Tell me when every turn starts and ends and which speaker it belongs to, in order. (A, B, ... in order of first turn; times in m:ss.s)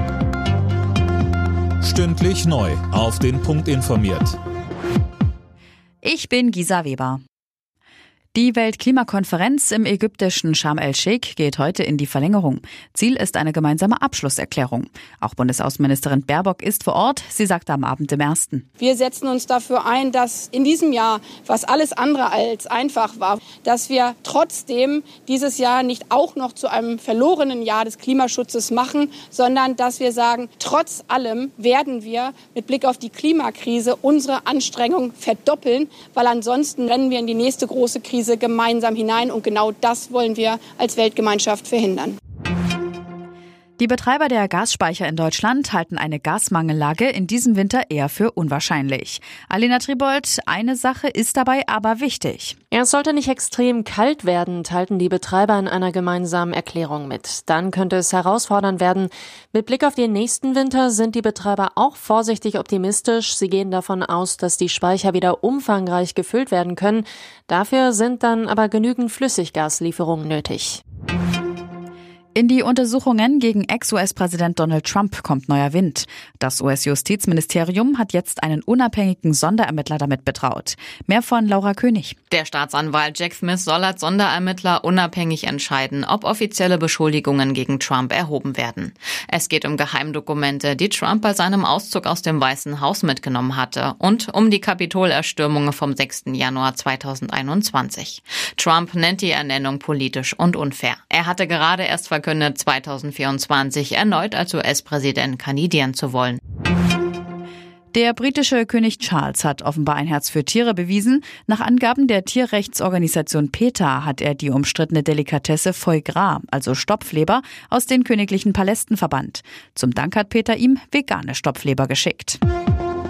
0:01.8-0:04.4 A
0:06.0-0:07.2 B
0:08.3-0:18.6 B
0:18.8-0:42.2 C
0:43.8-0:52.6 B
0:52.7-1:10.8 D
1:12.3-1:22.2 B
1:22.3-1:46.4 E
1:47.9-2:02.4 B